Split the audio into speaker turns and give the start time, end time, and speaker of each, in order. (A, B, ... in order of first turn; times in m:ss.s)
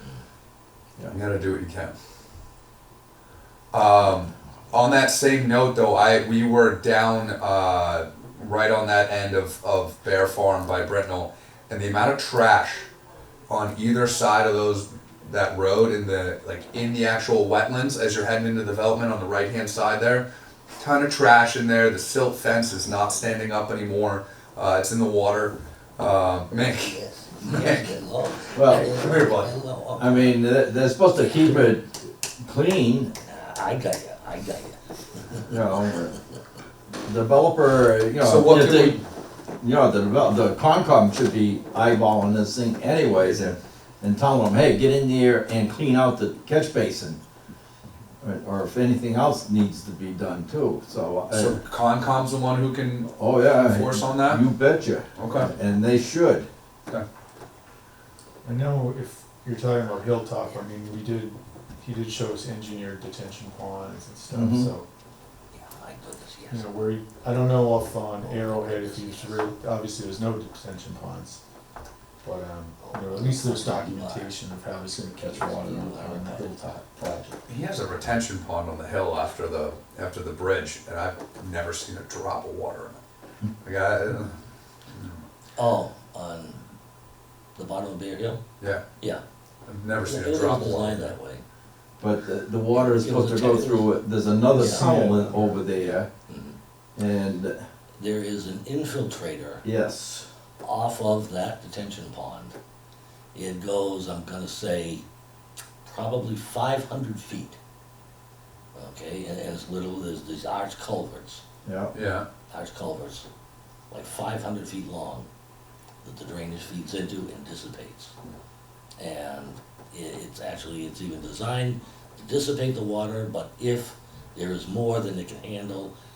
0:01.1-0:01.9 A
0:03.7-0:12.9 A
0:13.5-0:20.3 A
0:20.8-0:29.5 A
0:26.6-0:30.5 B
0:28.5-0:28.9 C
0:30.0-0:33.1 C
0:31.2-0:31.7 B
0:33.2-0:36.1 B
0:35.5-0:36.1 C
0:37.0-0:39.0 C
0:38.2-0:39.0 A
0:39.6-0:47.2 C
0:48.2-0:51.6 C
0:51.3-0:54.4 A
0:53.1-0:56.5 C
0:55.2-0:55.5 A
0:58.4-1:04.9 D
1:04.3-1:04.7 C
1:05.5-1:06.7 B
1:06.5-1:11.4 D
1:08.2-1:09.5 B
1:12.2-1:17.3 D
1:12.8-1:14.3 B
1:15.1-1:16.7 B
1:17.5-1:23.0 A
1:23.6-1:24.3 A
1:24.9-1:25.2 A
1:25.6-1:26.6 B
1:27.6-1:28.4 B
1:29.7-1:31.2 A
1:30.0-1:31.4 B
1:32.0-1:36.1 C
1:32.7-1:36.6 B
1:34.6-1:35.4 D
1:37.0-1:37.6 C
1:38.0-1:39.6 B
1:39.6-1:40.3 C
1:40.6-1:42.6 B
1:43.3-1:45.0 B
1:45.8-1:47.6 B
1:48.7-1:51.4 B
1:51.6-1:51.9 C
1:51.9-1:52.3 A
1:52.5-1:53.3 B
1:53.9-1:55.3 B
1:56.0-1:58.1 B
1:59.0-2:05.9 B